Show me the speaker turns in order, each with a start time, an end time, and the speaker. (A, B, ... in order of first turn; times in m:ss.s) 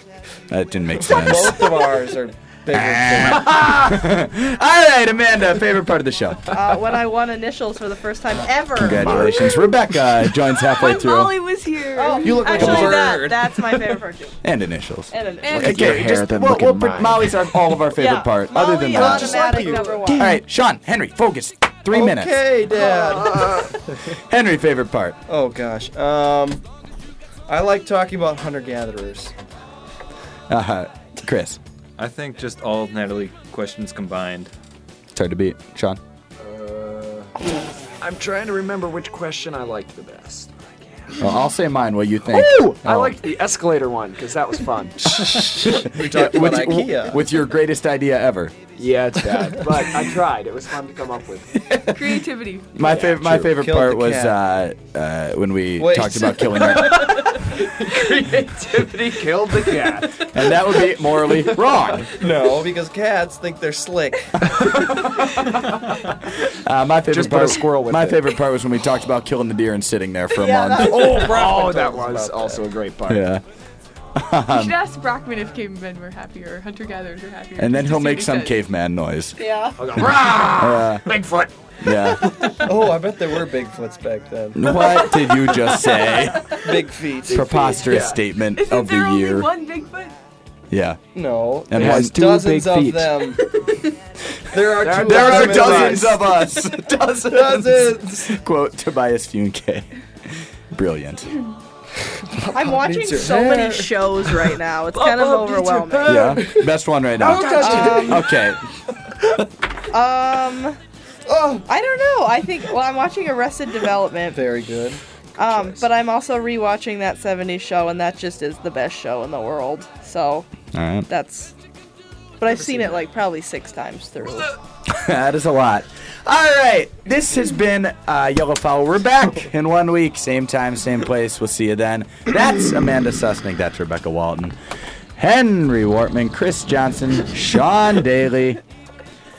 0:00.5-0:01.8 A
0:01.0-0:03.6 B
0:02.7-0:06.6 A
0:03.5-0:03.9 C
0:06.5-0:09.2 D
0:08.8-0:11.4 A
0:08.9-0:09.7 C
0:10.4-0:13.2 E
0:11.9-0:14.4 D
0:12.2-0:13.4 B
0:12.5-0:13.1 A
0:14.4-0:19.4 A
0:15.1-0:15.8 D
0:15.4-0:16.1 E
0:15.4-0:17.4 C
0:17.9-0:20.3 D
0:18.9-0:20.4 E
0:18.9-0:20.0 B
0:20.1-0:22.4 A
0:21.9-0:23.7 B
0:22.7-0:23.8 D
0:24.0-0:25.2 A
0:25.3-0:26.6 B
0:27.5-0:29.3 B
0:30.5-0:31.6 A
0:32.0-0:34.5 F
0:35.1-0:36.0 A
0:36.4-0:37.3 C
0:38.0-0:41.3 C
0:41.2-0:43.2 A
0:42.3-0:45.4 C
0:45.3-0:47.3 B
0:45.4-0:48.6 A
0:48.8-0:51.6 C
0:51.6-0:57.4 A
0:51.9-0:52.8 E
0:52.8-0:53.5 C
0:53.3-0:54.4 B
0:55.8-0:57.3 B
0:57.6-1:00.3 C
0:57.9-0:58.5 E
0:59.8-1:00.1 E
1:00.2-1:02.2 A
1:00.8-1:01.8 E
1:02.1-1:04.5 B
1:04.4-1:05.7 A
1:06.5-1:11.2 A
1:07.1-1:08.2 C
1:10.3-1:11.2 D
1:10.8-1:13.3 C
1:11.1-1:12.6 B
1:13.1-1:13.4 A
1:14.2-1:14.8 A
1:14.5-1:18.6 E
1:17.6-1:19.4 A
1:19.4-1:19.8 D
1:19.8-1:22.5 C
1:20.0-1:21.1 A
1:21.8-1:22.5 A
1:22.6-1:24.9 B
1:24.6-1:26.6 A
1:24.6-1:26.6 E
1:26.6-1:27.8 B
1:27.3-1:28.2 C
1:27.3-1:29.5 A
1:28.5-1:30.2 E
1:30.7-1:31.0 A
1:31.1-1:33.5 B
1:31.7-1:32.2 A
1:31.7-1:33.3 C
1:34.4-1:36.3 B
1:34.8-1:36.2 C
1:34.9-1:41.4 A
1:37.3-1:38.3 B
1:42.2-1:44.4 B
1:42.5-1:46.4 D
1:44.9-1:46.6 C
1:46.0-1:48.0 B
1:46.0-1:48.6 A
1:47.2-1:48.3 C
1:47.5-1:48.2 D
1:49.9-1:50.8 D
1:51.2-1:51.6 B
1:51.6-1:54.4 D
1:54.3-1:55.0 B
1:55.4-2:00.5 D
1:55.4-1:55.8 C
2:00.7-2:01.1 A
2:01.1-2:01.5 D
2:02.4-2:04.5 D
2:04.8-2:14.6 A
2:15.2-2:18.6 A